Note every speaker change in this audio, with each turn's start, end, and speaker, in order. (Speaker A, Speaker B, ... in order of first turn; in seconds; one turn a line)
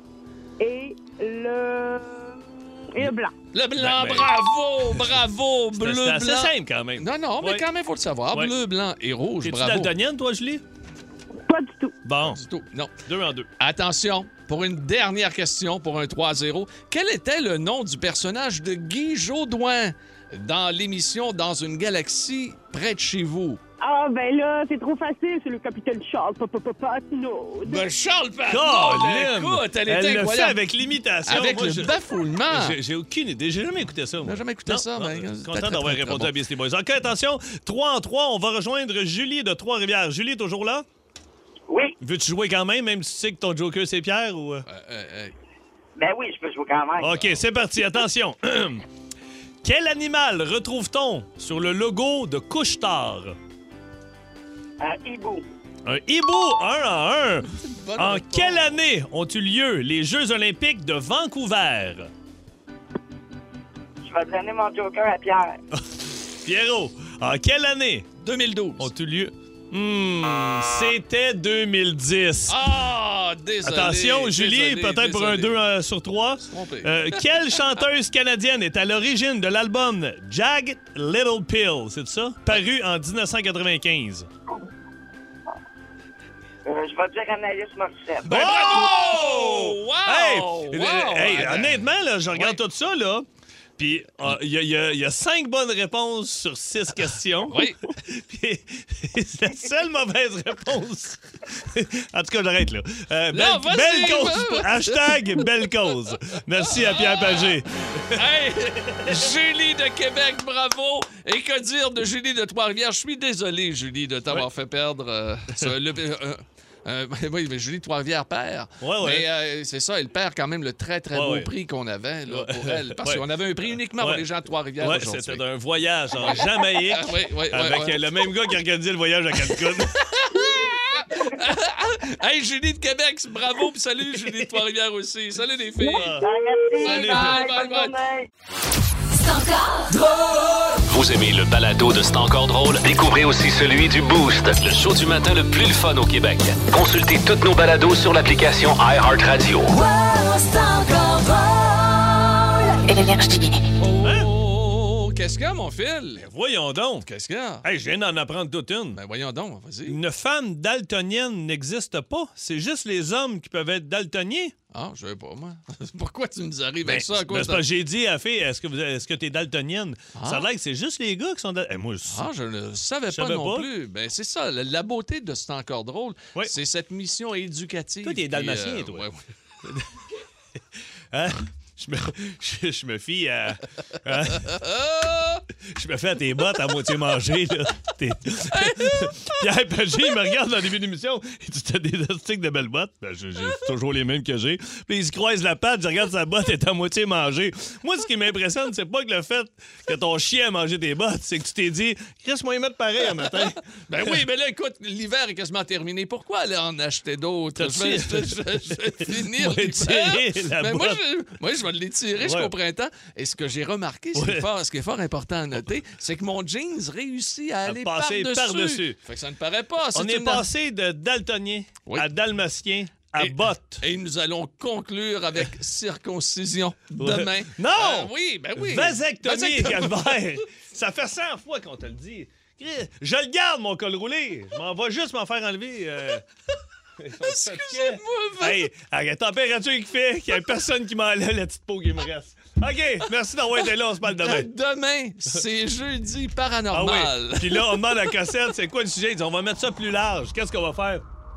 Speaker A: 0.6-3.3
Speaker B: 3.5-9.9
Speaker C: 3.8-4.3
Speaker C: 4.9-5.2
Speaker C: 5.8-7.7
Speaker C: 9.4-10.6
Speaker A: 11.4-11.9
Speaker C: 12.0-12.4
Speaker B: 12.2-12.9
Speaker C: 13.0-13.5
Speaker B: 13.6-23.6
Speaker A: 23.8-27.8
Speaker B: 27.7-30.6
Speaker C: 28.5-40.9
Speaker B: 31.2-32.8
Speaker B: 34.2-36.3
Speaker D: 41.7-41.9
Speaker C: 42.0-44.6
Speaker B: 44.6-45.3
Speaker D: 46.0-47.2
Speaker C: 47.0-48.9
Speaker C: 49.6-53.4
Speaker D: 54.8-55.4
Speaker C: 55.8-62.1
Speaker B: 57.7-58.7
Speaker D: 64.0-65.5
Speaker C: 65.7-68.1
Speaker B: 68.2-68.9
Speaker C: 68.8-72.6
Speaker B: 72.5-75.5
Speaker C: 73.6-84.3
Speaker B: 76.5-76.9
Speaker D: 86.7-88.8
Speaker B: 88.2-92.5
Speaker C: 88.2-93.3
Speaker C: 93.8-108.2
Speaker B: 97.5-97.8
Speaker B: 103.3-105.5
Speaker B: 106.7-125.4
Speaker C: 108.9-109.2
Speaker C: 118.8-119.2
Speaker C: 121.1-121.5
Speaker C: 122.3-124.2
Speaker C: 124.8-129.9
Speaker B: 126.2-128.1
Speaker B: 129.5-136.2
Speaker C: 135.8-136.2
Speaker A: 136.2-136.7
Speaker D: 136.2-138.2
Speaker B: 136.8-138.0
Speaker C: 136.8-137.4
Speaker E: 139.1-140.7
Speaker F: 140.9-149.7
Speaker E: 149.7-153.5
Speaker B: 153.8-156.2
Speaker C: 154.0-154.3
Speaker C: 156.2-157.1
Speaker B: 157.0-157.6
Speaker C: 157.6-159.0
Speaker B: 158.9-160.0
Speaker C: 159.8-164.5
Speaker B: 164.7-167.7
Speaker C: 166.8-172.2
Speaker B: 170.1-170.5
Speaker B: 172.1-179.8
Speaker C: 173.1-173.7
Speaker C: 178.0-179.1
Speaker C: 181.1-184.6
Speaker B: 184.5-185.4
Speaker C: 185.6-204.2
Speaker B: 188.5-189.4
Speaker B: 203.9-220.4
Speaker C: 207.6-211.0
Speaker C: 212.2-212.5
Speaker C: 214.1-214.5
Speaker C: 217.6-219.0
Speaker C: 219.9-223.8
Speaker B: 223.2-230.3
Speaker C: 227.0-236.3
Speaker C: 237.0-244.5
Speaker B: 237.2-238.7
Speaker B: 244.1-247.9
Speaker C: 246.7-251.0